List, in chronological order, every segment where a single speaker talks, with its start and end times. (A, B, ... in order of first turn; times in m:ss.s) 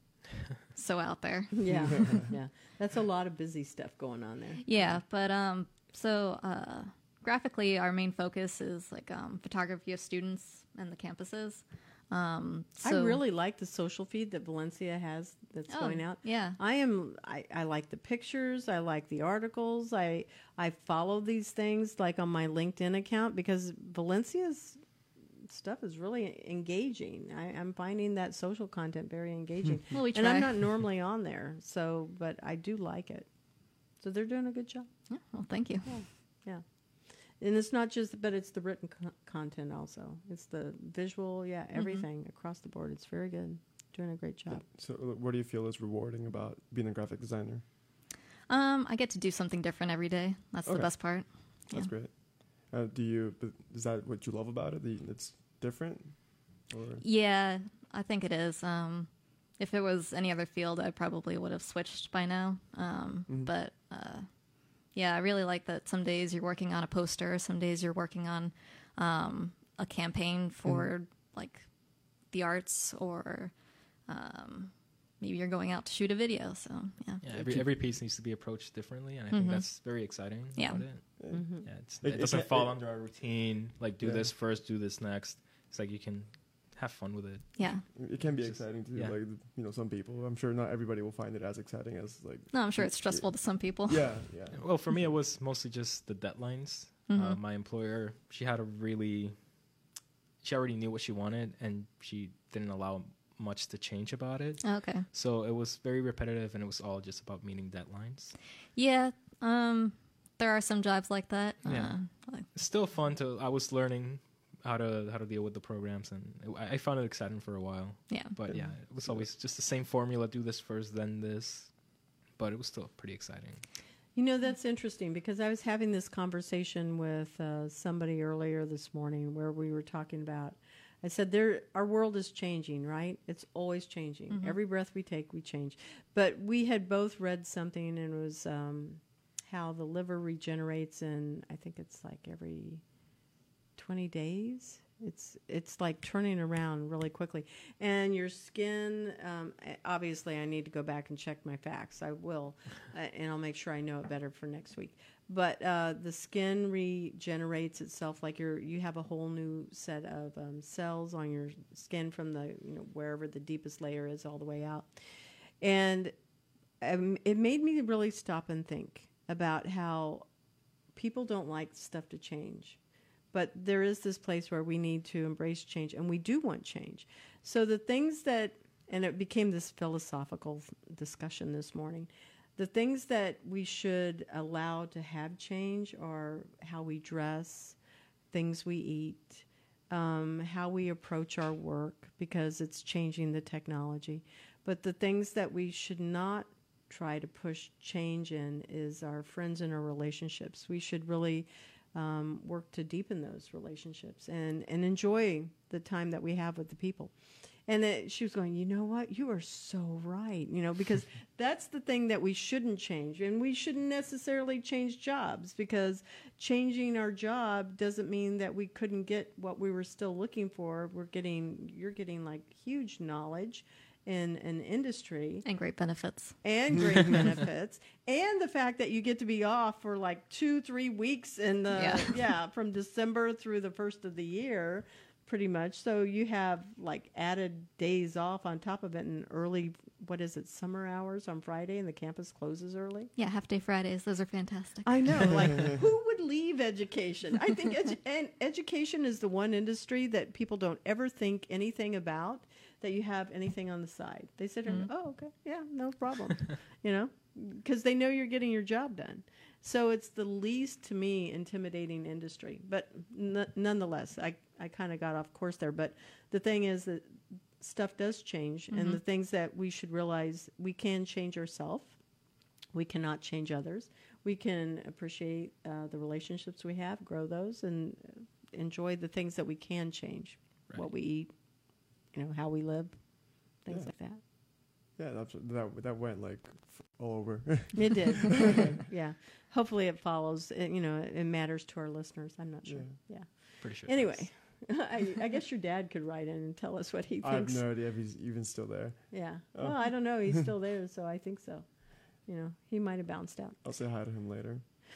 0:00.7-0:02.2 A
0:01.6-0:04.6 B
0:01.7-0:02.3 C
0:04.6-0:13.2 A
0:12.8-0:24.8 B
0:15.7-0:16.6 A
0:25.4-0:33.3 B
0:29.9-0:30.6 A
0:34.0-0:34.9 B
0:35.1-0:36.0 A
0:35.8-0:36.6 B
0:37.4-0:44.6 B
0:41.8-0:42.1 A
0:44.5-0:47.6 C
0:48.5-0:51.9 A
0:50.7-0:57.0 C
0:57.0-1:04.3 A
1:04.9-1:17.6 A
1:17.2-1:29.2 D
1:19.3-1:20.9 A
1:21.2-1:23.0 C
1:21.3-1:21.7 B
1:24.0-1:24.3 C
1:27.6-1:27.8 A
1:28.0-1:34.6 C
1:32.5-1:34.2 A
1:34.5-1:39.4 D
1:37.1-1:37.4 A
1:40.4-1:48.4 D
1:44.6-1:45.0 A
1:48.8-1:52.5 A
1:51.6-1:52.0 D
1:52.5-2:01.8 D
1:58.1-1:58.4 A
1:58.5-1:59.3 C
2:02.3-2:03.6 D
2:04.2-2:22.8 B
2:14.3-2:14.6 A
2:23.8-2:45.0 B
2:45.6-2:46.1 B
2:46.8-2:50.3 B
2:51.0-2:52.8 B
2:53.3-3:07.8 B
3:08.3-3:27.1 B
3:27.7-3:45.4 B
3:45.4-3:46.4 A
3:46.4-4:03.1 B
3:51.7-3:52.2 A
4:03.2-4:05.4 A
4:04.8-4:32.0 B
4:28.7-4:29.0 A
4:32.7-4:41.3 B
4:42.1-4:44.2 B
4:45.0-4:48.7 C
4:47.8-4:57.7 B
4:52.6-4:53.0 C
4:53.6-4:54.6 D
4:57.2-5:00.5 C
4:59.1-5:03.6 B
5:03.6-5:04.6 C